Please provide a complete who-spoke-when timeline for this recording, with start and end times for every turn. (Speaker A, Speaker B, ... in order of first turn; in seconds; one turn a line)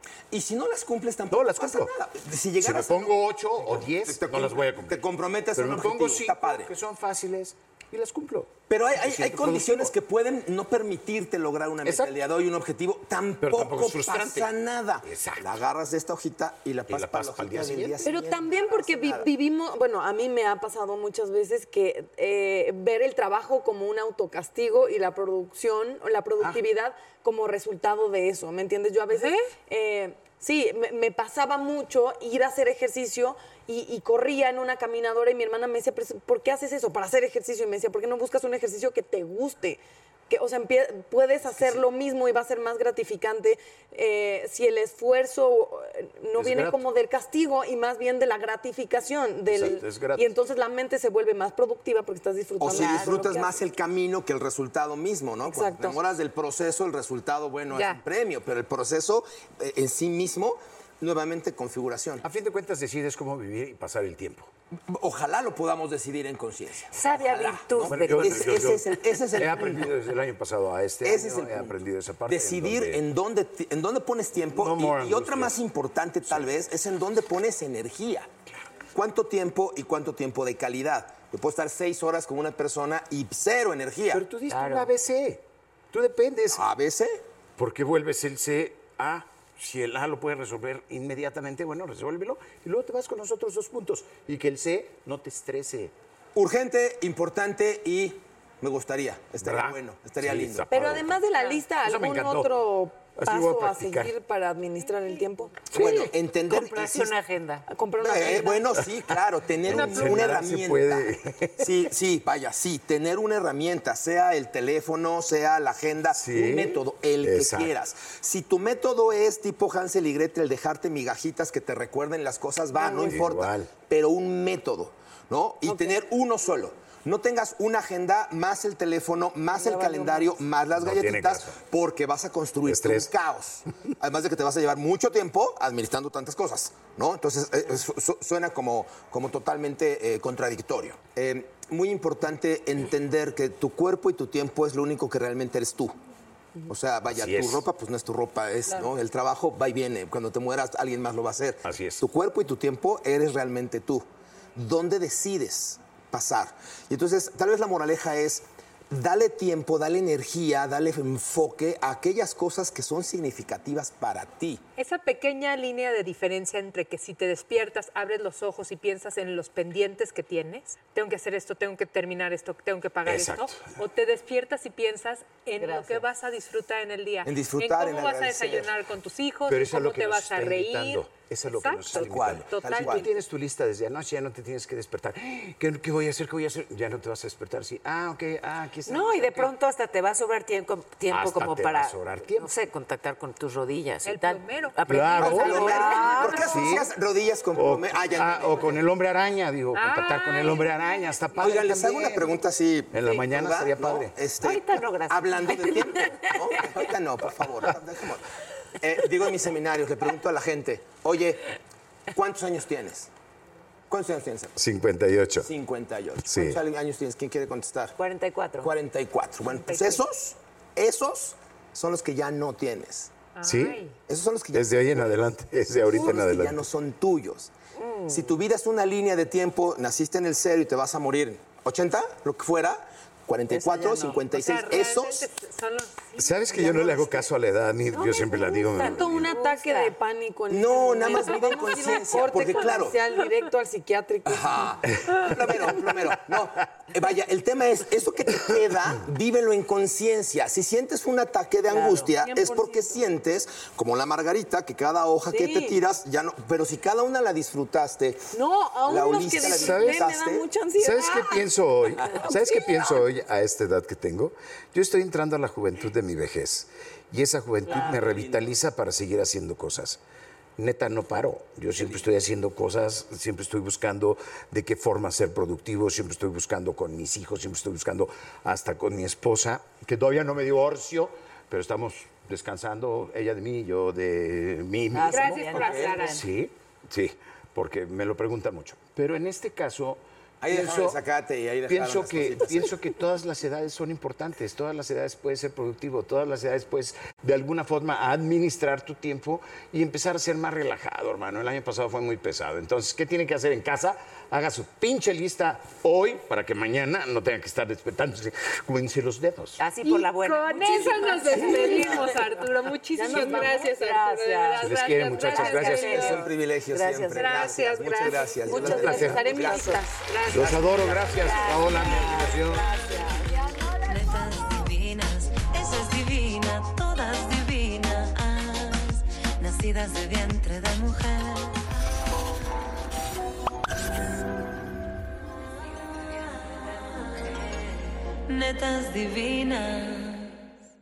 Speaker A: 0.3-6.8
Speaker B: 1.3-1.9
Speaker B: 2.6-5.0
Speaker B: 5.5-9.9
Speaker A: 8.7-19.3
Speaker B: 11.8-12.1
Speaker B: 13.4-14.5
Speaker B: 15.0-15.5
Speaker B: 16.9-18.0
Speaker C: 18.0-53.6
Speaker D: 29.1-29.4
Speaker B: 46.4-46.9
Speaker B: 49.5-50.3
Speaker A: 52.6-62.2
Speaker C: 55.5-56.0
Speaker D: 57.7-58.0
Speaker B: 62.2-64.5
Speaker A: 64.9-70.1
Speaker E: 66.9-68.5
Speaker B: 67.8-73.0
Speaker A: 71.0-78.3
Speaker B: 74.6-75.5
Speaker A: 78.9-84.3
Speaker B: 84.1-86.6
Speaker E: 84.5-84.9
Speaker A: 86.5-87.1
Speaker B: 87.6-95.9
Speaker A: 96.3-100.9
Speaker B: 99.4-101.2
Speaker C: 100.7-105.7
Speaker B: 101.8-102.6
Speaker B: 103.2-104.1
Speaker A: 105.7-107.2
Speaker B: 105.8-106.1
Speaker E: 106.0-107.7
Speaker C: 107.7-108.8
Speaker A: 108.0-145.9
Speaker B: 109.7-111.8
Speaker B: 116.2-117.7
Speaker C: 122.8-123.1
Speaker B: 122.9-123.7
Speaker C: 125.7-126.0
Speaker C: 129.5-130.4
Speaker B: 130.8-131.6
Speaker B: 132.7-133.1
Speaker A: 146.7-164.6
Speaker B: 147.1-147.7
Speaker B: 151.7-152.0
Speaker D: 164.8-183.1
Speaker B: 173.1-173.7
Speaker E: 175.6-176.1
Speaker A: 177.2-178.8
Speaker B: 179.5-189.6
Speaker A: 181.9-183.1
Speaker E: 188.9-196.6
Speaker B: 191.1-192.5
Speaker D: 194.1-196.4
Speaker B: 194.8-196.9
Speaker A: 195.2-198.8
Speaker B: 197.6-202.3
Speaker D: 199.8-201.6
Speaker A: 201.4-208.2
Speaker B: 202.9-204.1
Speaker E: 204.4-206.3
Speaker A: 208.8-211.5
Speaker A: 212.1-213.1
Speaker A: 213.9-214.6
Speaker B: 214.6-215.5
Speaker A: 215.4-218.0
Speaker B: 216.3-216.6
Speaker E: 218.0-218.7
Speaker A: 218.6-223.1
Speaker D: 219.5-220.0
Speaker D: 223.4-223.9
Speaker B: 223.4-223.8
Speaker A: 224.1-227.5
Speaker B: 224.5-226.6
Speaker E: 227.8-228.3
Speaker A: 228.1-235.3
Speaker D: 234.1-237.0
Speaker B: 236.2-239.3
Speaker A: 236.6-237.1
Speaker C: 237.9-244.8
Speaker E: 239.3-239.9
Speaker A: 240.5-243.0
Speaker A: 244.2-260.5
Speaker B: 244.9-245.2
Speaker C: 251.7-253.0
Speaker C: 255.3-255.8
Speaker C: 258.3-261.5
Speaker B: 259.5-260.0
Speaker B: 260.8-270.0
Speaker C: 262.1-263.0
Speaker A: 267.7-268.6
Speaker B: 270.6-291.0
Speaker A: 271.8-272.1
Speaker E: 284.9-286.3
Speaker D: 285.1-286.2
Speaker A: 290.4-292.8
Speaker B: 291.7-309.6
Speaker E: 309.6-312.3
Speaker D: 309.8-316.3
Speaker C: 311.2-312.3
Speaker C: 312.9-316.3
Speaker E: 313.1-313.5
Speaker B: 314.6-316.1
Speaker A: 315.8-321.5
Speaker E: 316.8-317.2
Speaker D: 317.1-320.9
Speaker C: 318.4-320.1
Speaker B: 318.7-322.7
Speaker E: 321.2-323.4
Speaker F: 323.9-331.6
Speaker F: 338.3-340.4